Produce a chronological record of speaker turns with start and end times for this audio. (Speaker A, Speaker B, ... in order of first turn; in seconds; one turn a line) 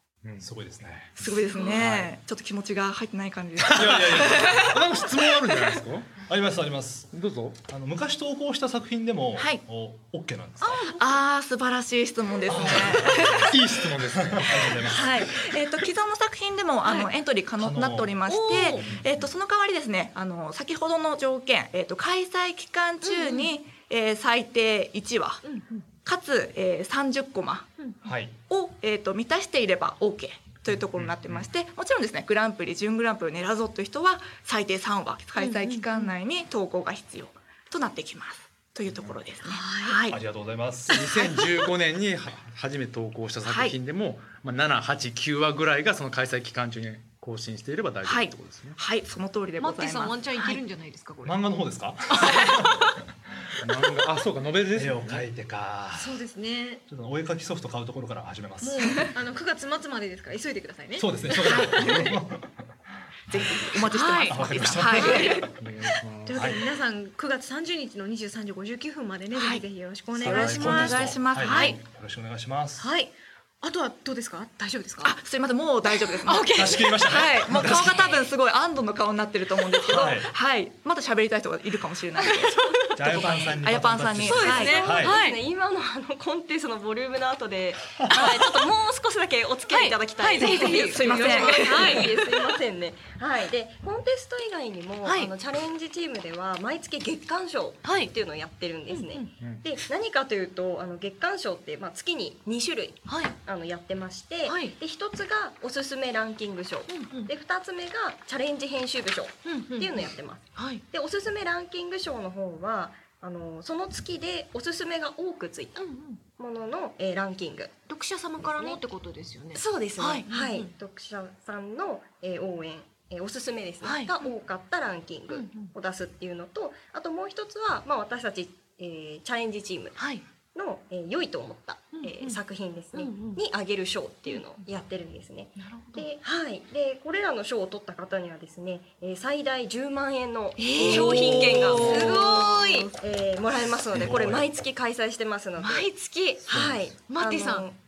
Speaker A: 0.2-0.5
Speaker B: 0.4-2.1
Speaker C: 1.2-5.8
Speaker D: 1.5-1.8
Speaker A: 3.7-6.2
Speaker B: 3.7-4.8
Speaker B: 6.3-10.8
Speaker A: 7.1-7.6
Speaker C: 9.4-9.6
Speaker D: 10.6-11.2
Speaker C: 10.9-13.6
Speaker B: 12.5-15.3
Speaker A: 13.2-14.8
Speaker C: 14.6-25.4
Speaker D: 16.8-17.1
Speaker B: 17.6-19.2
Speaker D: 18.3-18.9
Speaker D: 23.0-23.5
Speaker D: 25.4-25.8
Speaker C: 26.0-27.7
Speaker B: 28.0-28.4
Speaker C: 28.5-40.2
Speaker B: 31.0-31.4
Speaker D: 35.4-36.1
Speaker D: 39.4-40.0
Speaker B: 40.1-41.0
Speaker A: 40.9-48.8
Speaker C: 43.5-43.8
Speaker C: 48.0-50.6
Speaker D: 49.6-51.4
Speaker B: 51.2-53.6
Speaker D: 52.1-52.9
Speaker A: 53.6-55.3
Speaker B: 54.7-56.2
Speaker D: 55.9-56.8
Speaker B: 56.9-59.1
Speaker D: 58.6-61.9
Speaker B: 61.0-62.8
Speaker C: 61.5-62.2
Speaker C: 63.3-65.5
Speaker B: 63.3-65.6
Speaker D: 63.9-65.5
Speaker A: 65.5-66.6
Speaker D: 66.2-71.8
Speaker B: 66.3-66.6
Speaker C: 69.3-71.8
Speaker B: 70.2-72.9
Speaker D: 72.8-75.2
Speaker C: 75.0-85.0
Speaker D: 75.8-78.2
Speaker B: 76.5-78.1
Speaker D: 79.7-80.2
Speaker B: 79.9-80.3
Speaker E: 82.3-83.0
Speaker B: 83.0-85.2
Speaker D: 84.2-85.4
Speaker E: 84.4-117.7
Speaker D: 89.7-92.2
Speaker C: 90.4-92.3
Speaker D: 95.0-95.3
Speaker D: 97.8-98.1
Speaker D: 98.9-99.3
Speaker D: 103.1-103.3
Speaker D: 104.5-104.8
Speaker D: 106.9-107.3
Speaker D: 109.5-110.8
Speaker D: 115.8-116.2
Speaker D: 117.9-120.7
Speaker E: 118.4-118.8
Speaker E: 119.5-145.9
Speaker D: 123.8-124.3
Speaker D: 125.3-125.7
Speaker D: 130.0-130.2
Speaker D: 131.9-132.4
Speaker D: 132.9-133.4
Speaker D: 135.6-136.1
Speaker D: 140.6-142.9
Speaker A: 141.6-142.2
Speaker B: 143.8-144.6
Speaker D: 145.6-147.7
Speaker B: 146.5-146.9
Speaker E: 146.5-147.8